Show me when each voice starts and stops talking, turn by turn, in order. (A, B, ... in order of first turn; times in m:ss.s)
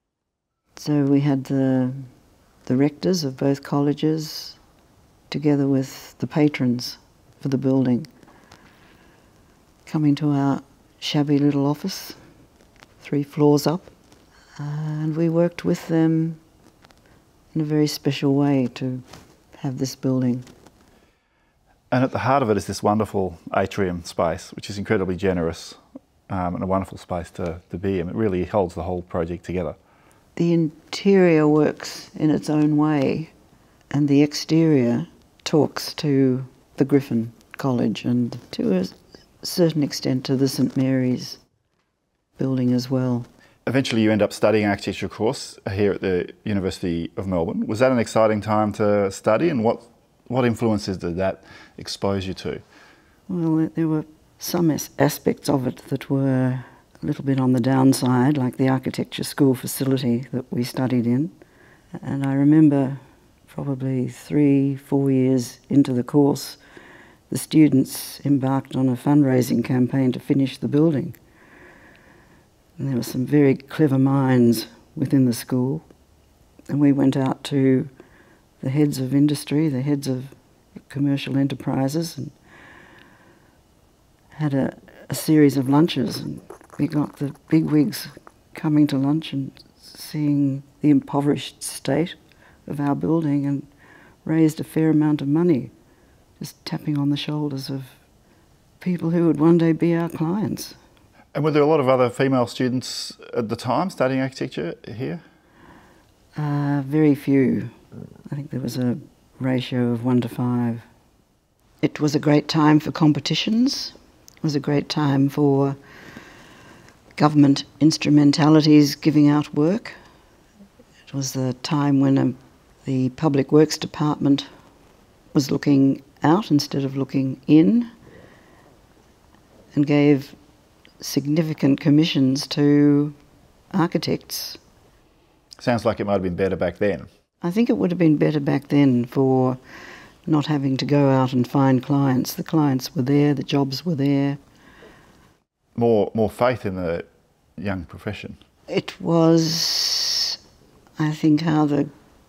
0:00.8-0:02.1 A
0:02.7-0:04.6 A
0:05.3-0:08.1 A
0:09.9-0:12.2 A
0:13.0-0:13.9 A
0:14.6-0:16.4 A
0:17.5-0:19.0 A
0:19.6-0:20.5 A
0:21.9-0:29.8 B
0:30.4-0:33.3 A
0:33.9-0:41.4 A
0:42.4-0:43.3 A
0:43.7-0:52.6 B
0:53.3-1:01.3 A
1:02.0-1:06.6 A
1:07.3-1:11.2 A
1:12.8-1:15.8 A
1:16.7-1:17.9 A
1:18.6-1:20.3 A
1:20.9-1:22.3 A
1:24.3-1:33.7 A
1:34.2-1:35.7 A
1:36.4-1:38.0 A
1:38.8-1:40.8 A
1:41.3-1:45.2 B
1:46.4-1:47.7 A
1:48.3-1:50.8 A
1:51.8-1:55.8 A
1:57.2-2:00.0 A
2:01.1-2:04.5 A
2:05.3-2:07.9 A
2:09.7-2:10.4 A
2:11.0-2:13.2 A
2:13.7-2:14.6 A
2:15.6-2:17.1 B
2:17.4-2:19.6 A
2:20.3-2:24.4 A
2:25.8-2:28.4 B
2:28.7-2:30.4 A
2:31.0-2:31.9 A